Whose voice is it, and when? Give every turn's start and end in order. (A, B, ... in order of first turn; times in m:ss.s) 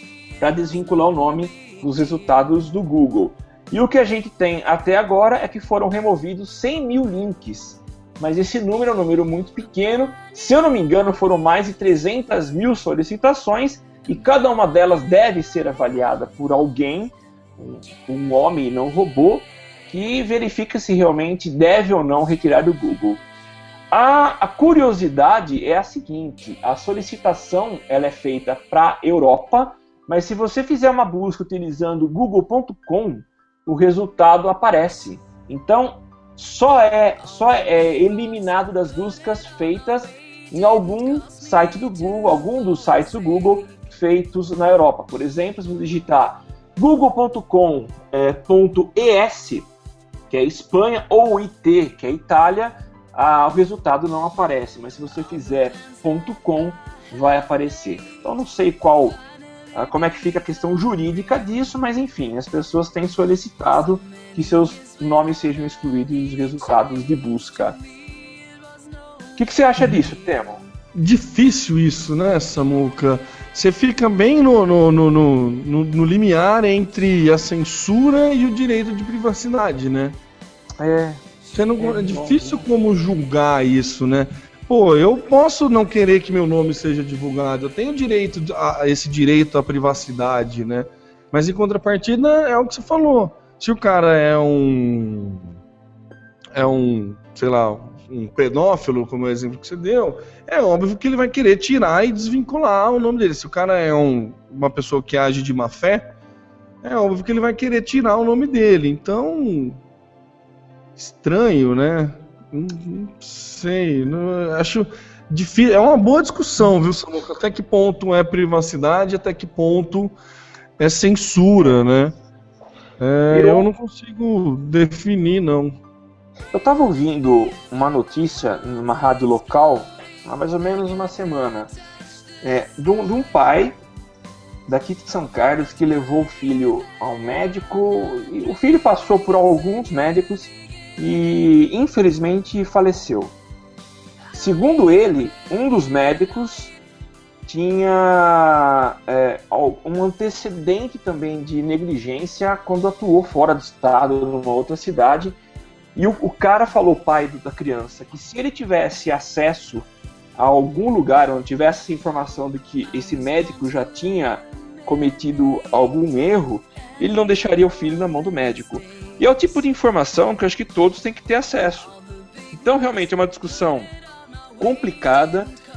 0:00.4-0:23.2 A
0:23.9-0:49.7 A
0:50.3-0:59.2 A
0:59.7-1:07.8 A
1:09.4-1:10.6 A
1:10.9-1:20.2 B
1:20.8-1:21.2 A
1:21.5-1:35.5 B
1:21.8-1:22.6 A
1:36.5-1:46.1 B
1:46.8-1:49.8 B
1:51.0-2:00.2 B
2:00.8-2:02.1 B
2:03.0-2:05.8 B
2:03.3-2:03.7 A
2:06.5-2:11.7 A
2:12.4-2:13.8 A
2:14.7-2:23.3 A
2:24.3-2:26.8 A
2:27.5-2:35.4 A
2:36.0-2:52.0 A
2:52.5-2:53.9 A
2:54.6-2:55.5 A